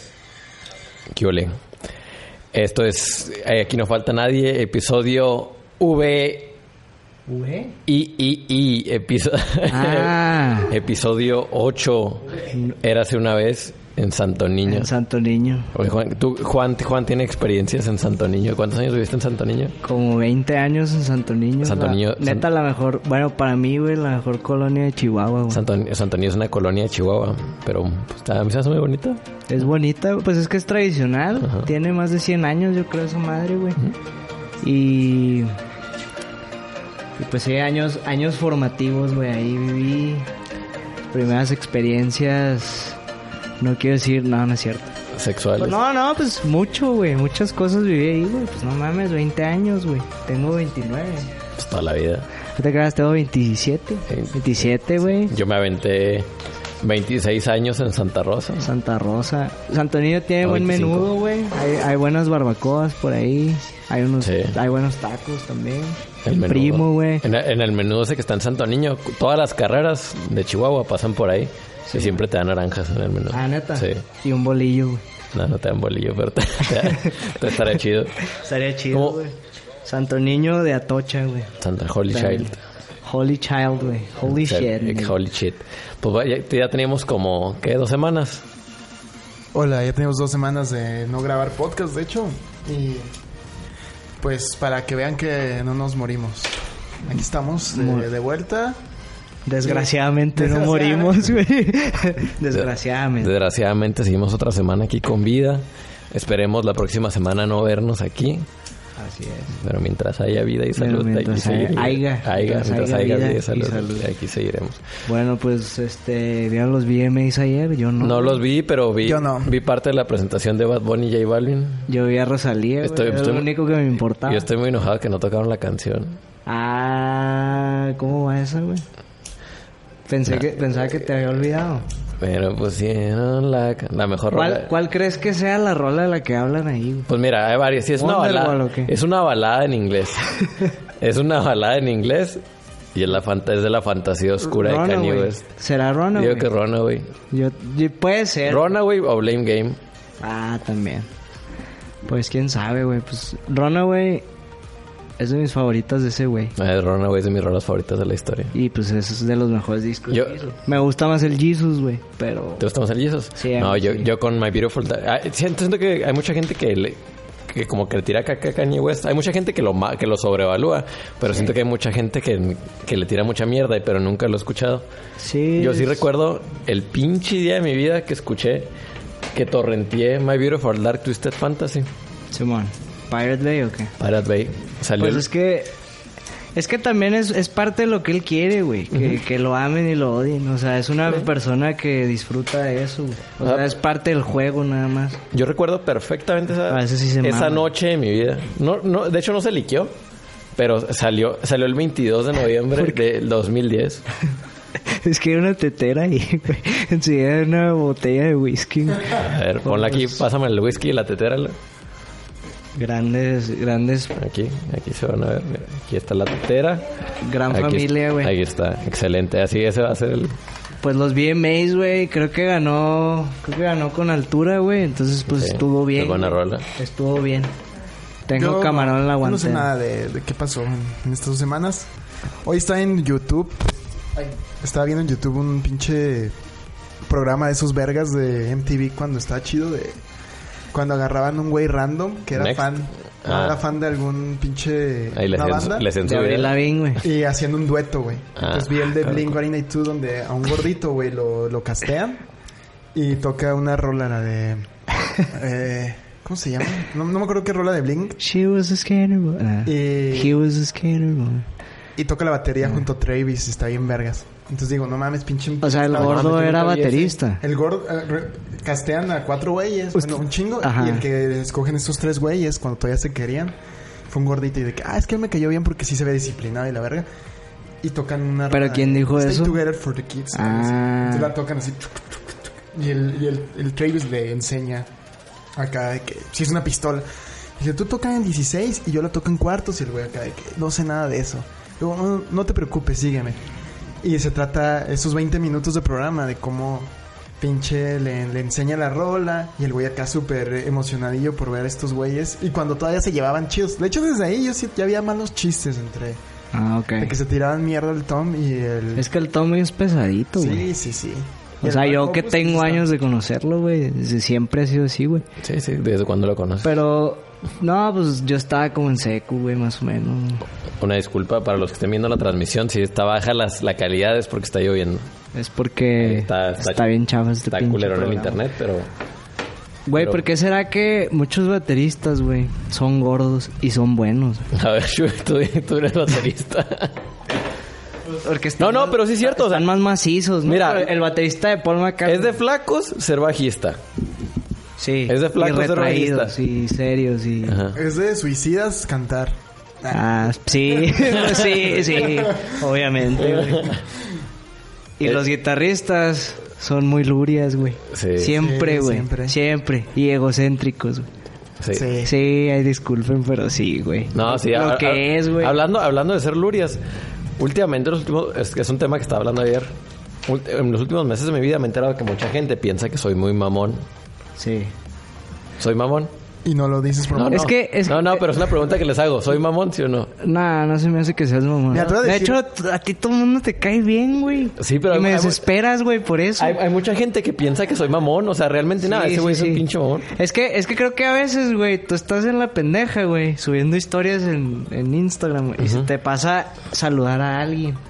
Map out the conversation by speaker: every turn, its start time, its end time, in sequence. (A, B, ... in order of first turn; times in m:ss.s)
0:01.1-0:01.5 A
0:02.5-0:06.5 A
0:07.3-0:07.7 B
0:07.8-0:14.9 A
0:09.7-0:10.7 B
0:12.5-0:12.8 B
0:14.6-0:15.7 B
0:15.7-0:19.8 A
0:19.8-0:25.6 B
0:21.6-0:22.4 A
0:25.5-0:29.2 A
0:29.5-0:33.8 B
0:31.4-0:31.7 A
0:34.6-0:35.6 B
0:37.2-0:40.3 B
0:41.1-0:43.0 B
0:43.6-0:44.9 B
0:45.1-0:45.8 A
0:45.6-0:51.3 B
0:51.6-0:52.2 A
0:52.6-0:55.4 B
0:54.1-0:54.4 A
0:55.2-0:56.3 A
0:56.8-0:58.7 A
0:58.6-1:07.2 B
1:00.4-1:01.1 A
1:04.2-1:04.6 A
1:06.2-1:14.0 A
1:11.9-1:12.2 B
1:13.3-1:15.0 B
1:15.3-1:18.3 A
1:18.2-1:21.5 B
1:18.9-1:19.2 A
1:21.6-1:22.6 A
1:22.1-1:22.5 B
1:23.0-1:25.2 B
1:24.3-1:28.4 A
1:29.5-1:33.1 C
1:34.2-1:36.5 C
1:37.0-1:38.8 C
1:37.7-1:38.1 B
1:39.4-1:43.3 B
1:39.6-1:41.3 C
1:43.2-1:48.4 A
1:49.0-1:49.6 B
1:49.6-1:54.8 A
1:50.8-1:54.0 B
1:55.0-1:58.4 B
1:58.0-2:01.9 A
1:59.0-1:59.5 C
2:01.9-2:04.4 B
2:02.8-2:03.5 A
2:04.2-2:06.2 A
2:06.4-2:08.8 B
2:10.1-2:11.8 B
2:12.2-2:14.7 A
2:14.3-2:17.1 B
2:17.1-2:20.3 A
2:18.0-2:18.9 B
2:21.0-2:22.4 A
2:22.9-2:25.4 A
2:24.4-2:26.5 B
2:26.1-2:27.1 A
2:27.3-2:28.7 B
2:28.5-2:29.8 A
2:30.2-2:31.1 B
2:32.0-2:34.2 B
2:35.2-2:36.5 B
2:36.6-2:38.5 A
2:38.5-2:42.6 B
2:40.1-2:40.4 A
2:42.6-2:54.8 A
2:43.4-2:44.1 B
2:55.2-2:56.0 B
2:55.6-2:58.7 A
2:59.3-3:01.9 A
3:02.3-3:03.9 B
3:04.0-3:05.2 A
3:05.0-3:05.7 B
3:06.6-3:15.2 B
3:08.9-3:09.2 A
3:13.4-3:13.7 A
3:15.3-3:19.9 A
3:16.7-3:17.7 B
3:20.6-3:24.0 A
3:24.8-3:30.2 B
3:29.0-3:31.6 A
3:32.7-3:34.1 B
3:34.2-3:36.8 A
3:37.2-3:38.3 B
3:37.5-3:40.3 A
3:40.8-3:47.5 B
3:45.3-3:46.6 A
3:48.3-3:49.7 B
3:48.3-3:51.9 C
3:52.4-3:56.3 C
3:57.0-4:00.0 C
4:00.7-4:05.9 C
4:02.3-4:03.6 A
4:05.1-4:06.6 A
4:06.0-4:07.0 B
4:07.0-4:12.2 C
4:08.4-4:09.4 A
4:12.9-4:18.2 C
4:18.2-4:21.5 B
4:19.6-4:20.4 C
4:22.0-4:26.4 C
4:25.6-4:27.4 B
4:25.9-4:27.1 A
4:27.4-4:33.5 C
4:30.0-4:31.0 B
4:34.1-4:37.0 C
4:37.8-4:44.9 C
4:38.5-4:39.6 B
4:40.3-4:41.3 B
4:45.6-4:47.0 C
4:47.6-4:53.4 C
4:54.0-5:06.2 C
5:06.5-5:07.1 B
5:07.0-5:09.1 C
5:09.0-5:10.7 B
5:10.4-5:12.9 C
5:11.6-5:15.2 B
5:15.4-5:16.7 A
5:16.6-5:20.4 B
5:20.8-5:25.1 A
5:25.3-5:28.4 B
5:26.0-5:28.9 A
5:29.9-5:34.5 B
5:30.0-5:30.2 A
5:34.5-5:37.0 A
5:38.2-5:42.4 B
5:38.6-5:39.7 A
5:40.4-5:40.9 A
5:42.0-5:43.8 A
5:44.8-5:47.6 B
5:45.1-5:46.3 A
5:47.4-5:47.8 A
5:47.7-5:50.0 C
5:49.9-5:53.8 B
5:50.7-5:51.0 C
5:51.0-5:51.8 A
5:52.0-5:52.6 C
5:53.2-5:53.8 A
5:55.0-6:01.1 B
5:57.9-5:58.4 A
5:58.2-5:59.4 C
6:01.6-6:01.9 A
6:01.7-6:02.1 C
6:02.0-6:05.6 B
6:04.1-6:06.8 A
6:07.4-6:09.7 A
6:10.2-6:13.8 A
6:14.4-6:14.7 B
6:15.6-6:16.1 A
6:16.4-6:17.5 C
6:17.1-6:20.1 A
6:17.3-6:18.5 B
6:20.2-6:26.6 B
6:21.7-6:22.4 C
6:24.6-6:25.4 A
6:26.4-6:30.1 A
6:28.8-6:37.8 B
6:35.6-6:35.9 A